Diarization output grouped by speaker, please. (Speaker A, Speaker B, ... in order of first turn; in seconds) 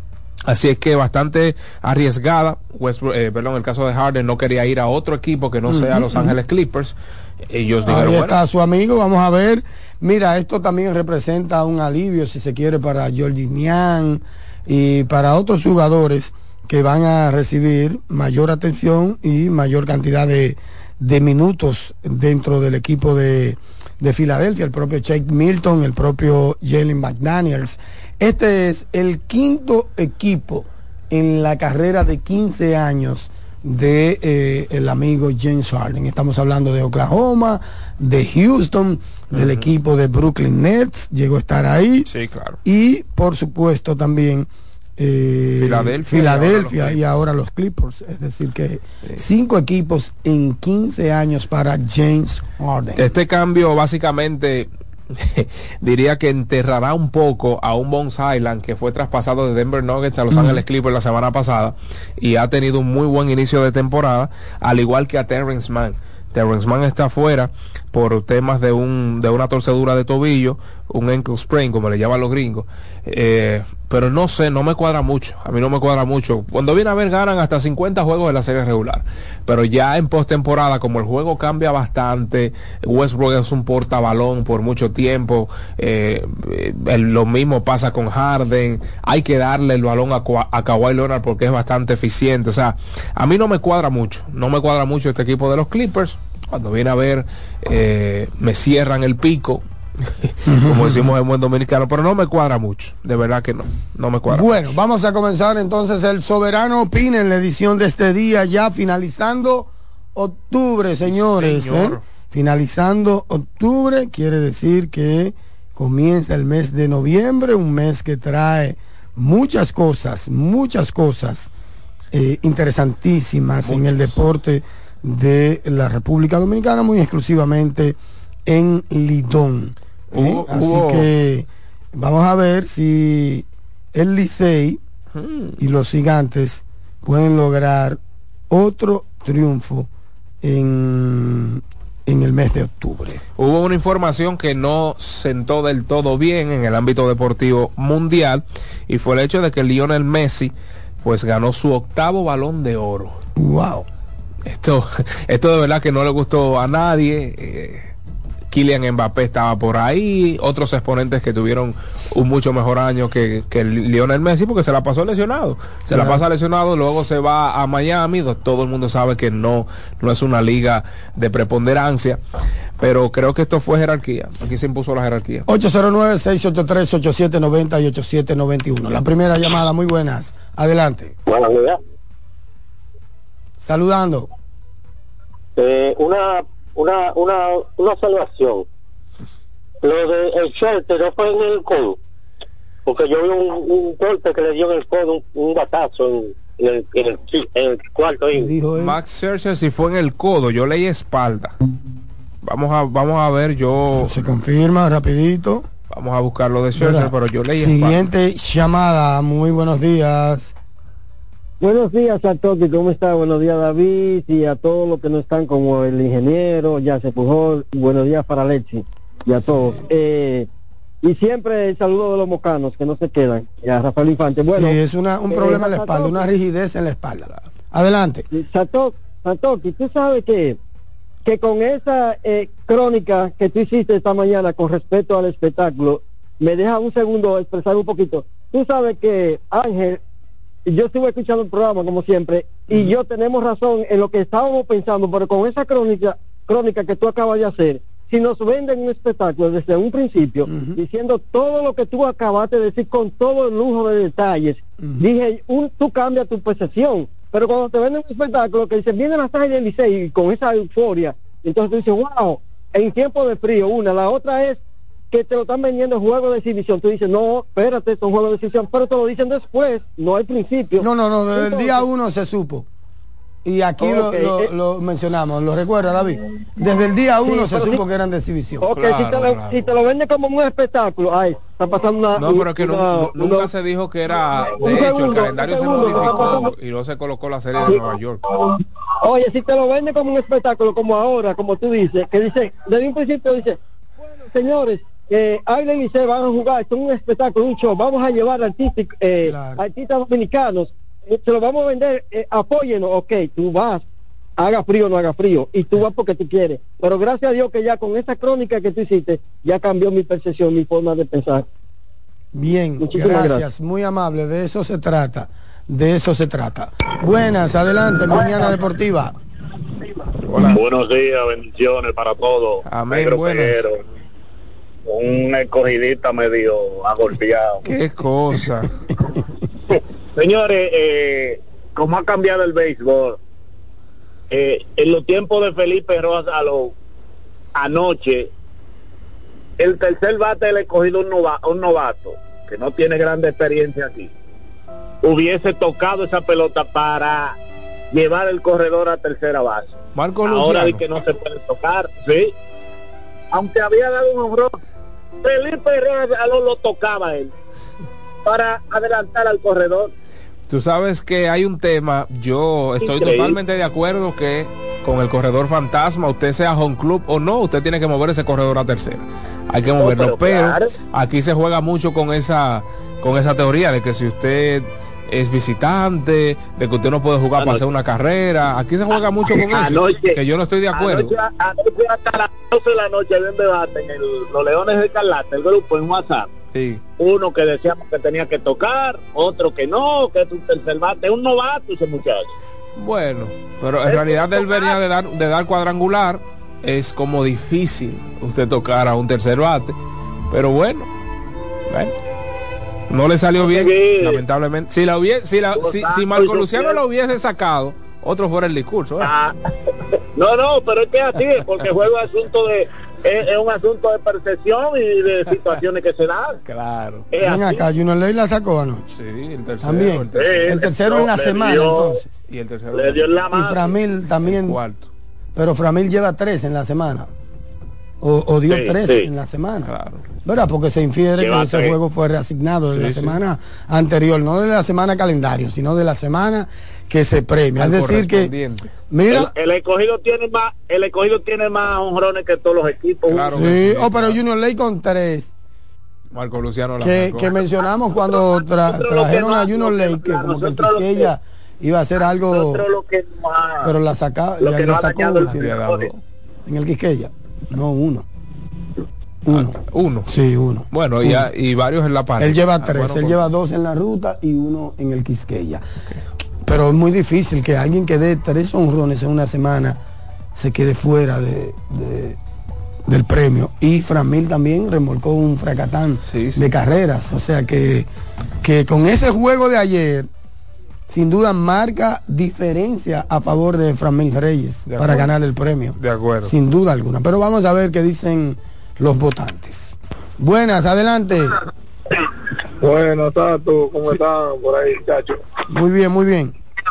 Speaker A: 0.5-7.0, 7.5-8.4, 39.3-39.7, 42.1-42.6, 45.6-47.0, 53.0-99.6, 100.2-104.8, 110.8-112.0, 123.7-124.3, 130.1-131.1, 135.2-135.6, 143.4-153.2, 154.4-157.9, 158.5-172.2, 172.8-175.5, 198.8-201.5, 202.4-204.2, 205.9-208.0, 278.7-279.8, 282.1-288.2, 320.3-320.6, 322.7-323.7, 327.6-328.7, 349.9-350.8, 360.5-381.1, 386.5-386.8, 392.8-399.8, 400.3-400.9, 401.7-401.9, 402.9-409.1, 416.5-417.1, 418.9-420.6, 422.3-423.2, 424.2-424.9, 429.6-430.1, 432.7-433.2, 437.6-438.7, 443.1-444.2, 446.1-447.4, 455.2-456.0, 459.3-460.1, 460.7-463.2, 476.1-476.4, 484.7-485.1, 485.8-486.3
Speaker B: 5.7-6.4, 7.8-42.1, 42.6-53.1, 60.3-60.6, 100.5-101.1, 104.3-121.5, 122.1-134.8, 135.6-138.0, 138.5-139.9, 140.4-143.2, 153.4-153.9, 165.9-166.2, 175.5-181.2, 183.6-184.3, 198.4-199.0, 204.0-205.7, 206.8-210.5, 224.5-228.3, 250.5-250.8, 254.8-255.1, 270.8-272.7, 273.4-278.7, 299.2-299.6, 312.3-319.1, 417.2-418.9, 419.6-422.0, 423.3-424.6, 425.4-427.1, 428.0-429.7, 430.2-438.3, 438.9-439.3, 443.3-445.3, 446.8-452.7, 453.6-455.5, 456.5-458.1, 459.2-461.3, 462.2-465.6, 466.4-469.8, 470.4-472.2, 472.9-477.9, 478.4-480.1, 480.9-491.4, 495.5-496.4
Speaker C: 185.6-186.3, 186.8-188.6, 189.9-191.9, 192.9-198.4
Speaker D: 211.6-220.5, 221.0-224.8, 225.3-226.3, 228.3-230.6, 231.2-240.0, 240.7-264.6, 265.1-271.9, 273.8-274.5, 277.2-277.8, 278.6-283.5, 284.3-286.5, 289.0-293.6, 294.3-303.8, 304.4-311.4, 312.8-313.4
Speaker E: 320.3-323.8, 324.9-327.6, 329.7-333.2, 334.3-336.7, 337.6-338.3, 339.6-344.1, 345.0-347.4, 347.9-349.8, 350.3-352.3, 353.3-354.6, 355.2-357.3, 358.2-359.9, 362.8-363.4, 369.8-370.7, 377.4-377.6, 378.9-380.2, 380.7-386.3, 387.0-392.3, 393.8-394.8, 403.4-404.2, 405.6-406.8, 409.0-409.4, 410.1-416.4, 417.1-417.7, 420.1-422.0, 422.7-423.8, 428.5-429.1, 431.2-431.8, 439.1-443.4, 448.0-451.1, 452.0-453.7, 454.4-455.9
Speaker F: 492.6-495.3